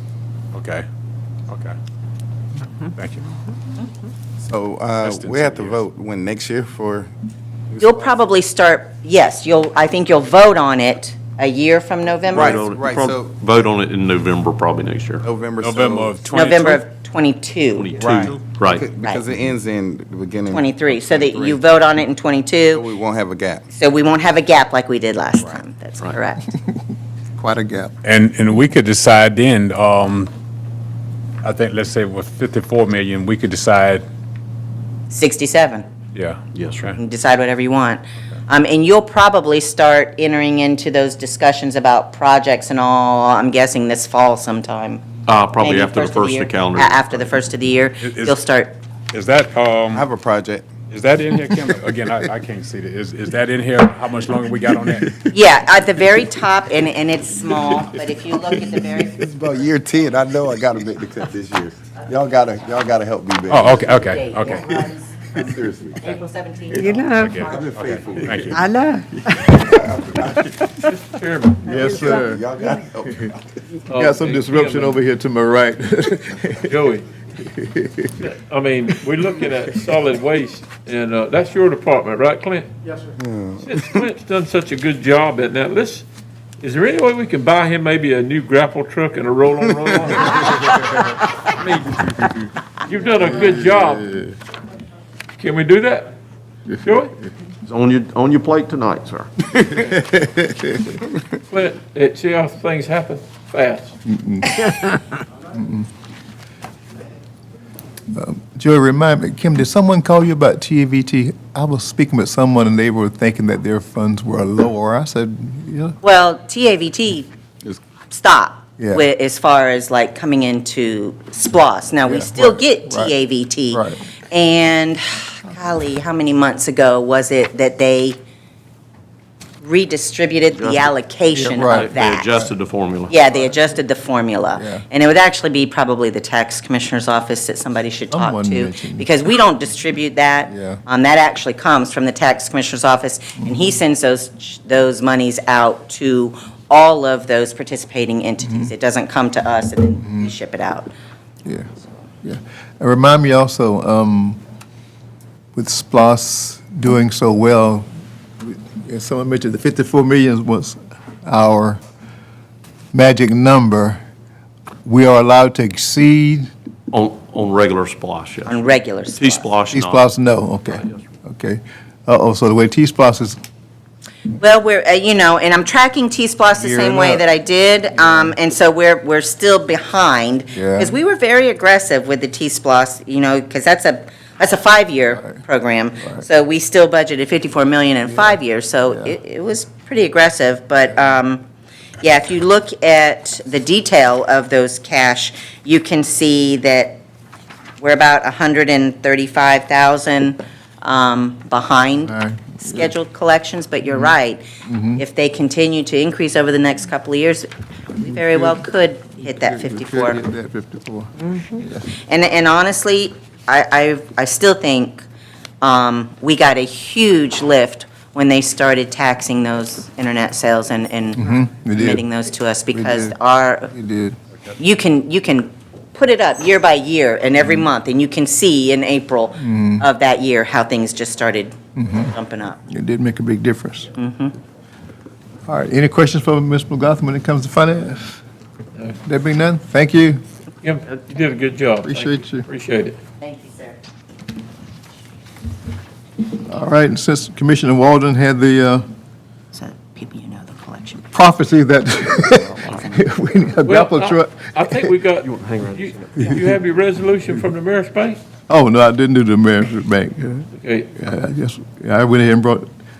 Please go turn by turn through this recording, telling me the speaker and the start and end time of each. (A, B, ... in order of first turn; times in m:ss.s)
0:00.5-0:00.8 A
0:01.5-0:01.7 A
0:02.8-0:03.4 A
0:04.4-0:07.1 B
0:05.0-0:05.8 A
0:07.7-0:08.1 B
0:07.8-0:12.6 C
0:12.3-0:13.3 B
0:12.3-0:15.2 D
0:15.2-0:16.2 B
0:15.6-0:16.8 A
0:16.2-0:17.9 C
0:17.7-0:18.8 D
0:18.0-0:21.6 B
0:20.5-0:22.8 C
0:22.7-0:23.6 B
0:23.7-0:26.4 C
0:27.4-0:27.9 E
0:28.0-0:30.3 A
0:31.4-0:34.0 A
0:35.1-0:35.8 C
0:36.1-0:36.9 A
0:36.5-0:36.9 D
0:37.0-0:45.0 C
0:45.2-0:47.3 D
0:45.6-0:48.8 C
0:48.0-0:48.4 A
0:49.1-0:50.1 A
0:49.9-0:50.7 B
0:50.9-0:55.1 A
0:55.3-0:59.3 C
0:59.2-1:04.3 B
1:03.5-1:04.9 A
1:03.9-1:05.4 C
1:05.3-1:06.0 B
1:06.0-1:07.6 C
1:06.7-1:07.4 F
1:07.2-1:08.6 A
1:07.4-1:08.6 B
1:08.5-1:09.4 F
1:09.4-1:10.9 B
1:10.8-1:11.7 G
1:11.6-1:12.5 E
1:11.7-1:13.4 B
1:11.9-1:12.2 F
1:13.0-1:13.3 E
1:13.9-1:15.0 G
1:13.9-1:16.7 E
1:16.6-1:17.1 G
1:17.4-1:18.2 E
1:18.2-1:22.7 G
1:23.2-1:24.1 B
1:23.6-1:26.0 G
1:26.6-1:30.6 G
1:31.5-1:34.2 G
1:33.3-1:34.2 E
1:35.4-1:36.1 G
1:36.8-1:37.1 G
1:37.6-1:40.0 D
1:40.1-1:40.7 E
1:41.5-1:43.9 G
1:44.0-1:44.8 E
1:45.5-1:45.8 E
1:48.1-1:56.0 E
1:56.0-1:57.3 C
1:58.1-2:08.2 C
2:02.0-2:03.1 E
2:03.7-2:04.0 E
2:09.6-2:12.4 C
2:10.6-2:13.2 D
2:11.5-2:12.5 E
2:13.1-2:30.9 C
2:14.6-2:14.8 E
2:18.1-2:19.1 E
2:20.5-2:20.8 E
2:28.4-2:28.7 E
2:30.0-2:30.3 E
2:32.2-2:34.4 E
2:35.6-2:37.9 E
2:38.4-2:41.8 E
2:42.9-2:44.0 E
2:44.8-2:46.5 E
2:46.9-2:50.1 D
2:48.5-2:49.4 C
2:49.7-2:53.4 E
2:50.7-2:51.0 D
2:54.3-3:11.4 C
2:56.5-2:57.2 E
3:00.5-3:01.0 E
3:08.9-3:09.1 E
3:12.0-3:17.0 C
3:17.8-3:24.4 C
3:22.0-3:22.9 E
3:24.6-3:25.0 E
3:25.0-3:30.2 C
3:28.0-3:28.6 E
3:29.2-3:31.9 E
3:31.9-3:35.0 C
3:35.6-3:43.7 C
3:41.2-3:42.0 E
3:42.7-3:43.2 E
3:43.7-3:44.2 E
3:44.6-3:52.6 C
3:49.4-3:49.8 E
3:51.8-3:52.1 E
3:52.7-3:53.9 E
3:54.0-3:54.3 C
3:55.5-3:58.2 E
3:59.0-4:00.2 E
4:00.6-4:03.0 G
4:01.8-4:02.4 E
4:03.2-4:03.8 C
4:06.4-4:08.8 E
4:09.5-4:11.0 C
4:11.0-4:14.9 E
4:13.6-4:18.2 G
4:15.3-4:16.2 D
4:18.5-4:22.7 E
4:20.6-4:20.9 G